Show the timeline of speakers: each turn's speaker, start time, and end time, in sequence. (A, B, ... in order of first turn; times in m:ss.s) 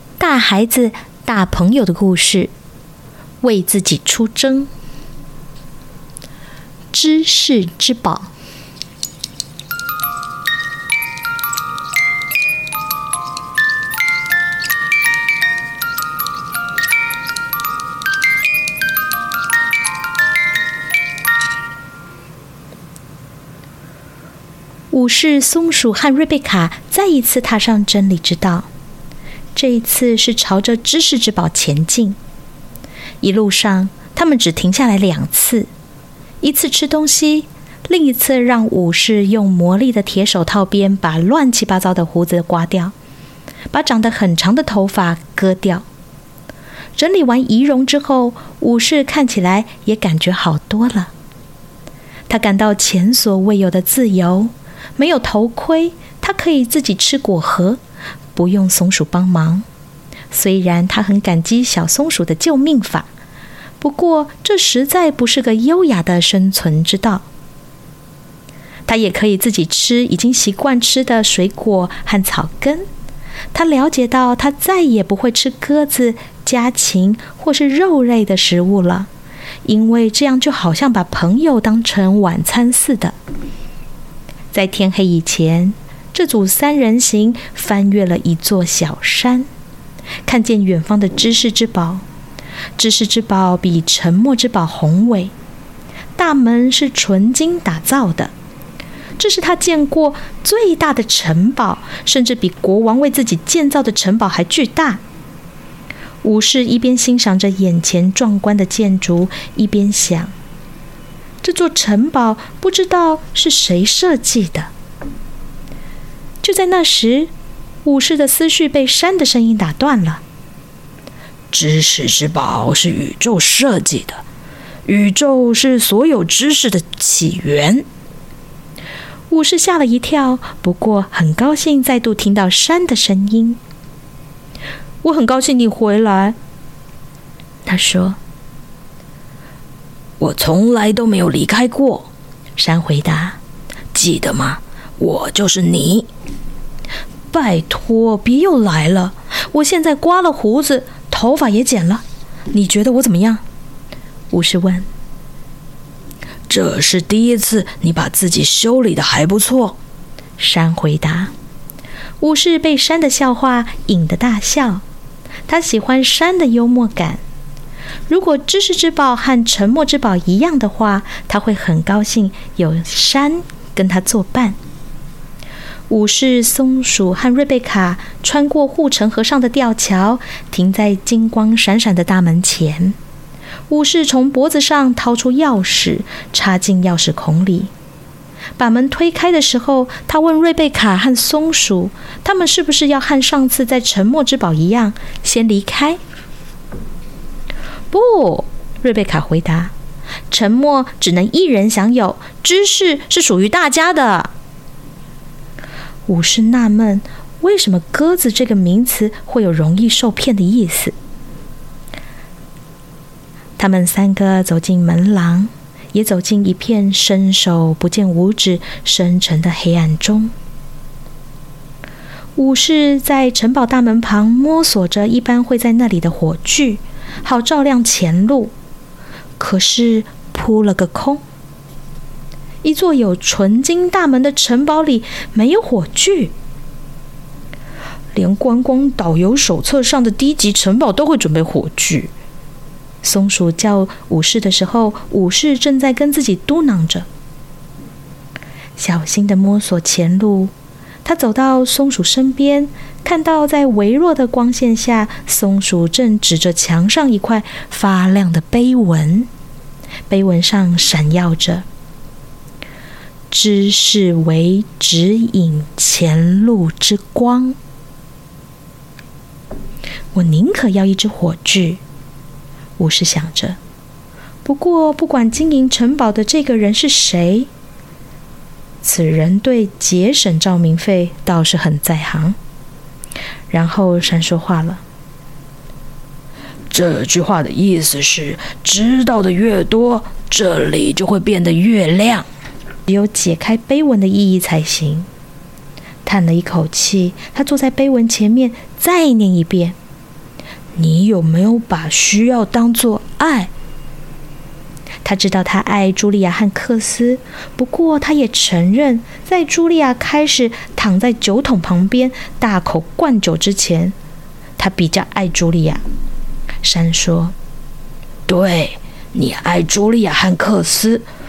0:00.2-0:02.5 A
0:03.4-0:04.7 A
0:06.9-0:08.3 A
0:24.9-0:28.7 A
0:29.6-0:32.2 A
0:33.2-0:35.7 A
0:36.4-0:42.9 A
0:43.7-0:45.8 A
0:47.0-0:51.1 A
0:52.3-0:57.8 A
0:58.4-0:59.6 A
1:00.3-1:03.1 A
1:03.8-1:07.3 A
1:08.9-1:12.9 A
1:13.5-1:19.1 A
1:19.6-1:23.2 A
1:24.5-1:29.5 A
1:30.2-1:32.0 A
1:32.8-1:35.3 A
1:36.2-1:38.3 A
1:39.2-1:45.0 A
1:46.2-1:50.3 A
1:51.4-1:54.7 A
1:56.4-1:57.3 A
1:57.8-2:00.2 A
2:01.5-2:04.2 B
2:04.9-2:07.8 A
2:09.3-2:13.6 A
2:15.0-2:16.4 A
2:17.7-2:18.2 A
2:20.2-2:22.1 B
2:22.6-2:23.4 A
2:24.0-2:26.1 B
2:27.3-2:33.4 A
2:34.3-2:34.9 A
2:36.5-2:39.8 B
2:40.4-2:41.3 A
2:42.2-2:44.8 A
2:45.5-2:47.2 A
2:48.1-2:54.6 A
2:55.9-3:03.0 A
3:03.7-3:07.7 A
3:08.6-3:16.0 A
3:17.9-3:19.7 A
3:20.3-3:24.3 A
3:26.1-3:31.0 A
3:33.6-3:40.3 A
3:42.4-3:48.5 A
3:49.4-3:51.2 A
3:52.6-3:56.3 A
3:58.1-4:02.1 A
4:03.0-4:07.1 A
4:08.8-4:10.5 A
4:11.0-4:19.3 A
4:20.1-4:21.6 A
4:23.3-4:27.6 A
4:30.1-4:31.8 A
4:32.8-4:33.6 A
4:34.4-4:37.5 A
4:38.8-4:42.4 A
4:43.5-4:44.8 A
4:46.7-4:52.3 B
4:52.9-4:55.1 A
4:56.0-4:59.8 A
5:00.8-5:03.5 A
5:05.0-5:14.0 A
5:14.6-5:15.8 A
5:16.6-5:17.3 A
5:18.3-5:21.0 B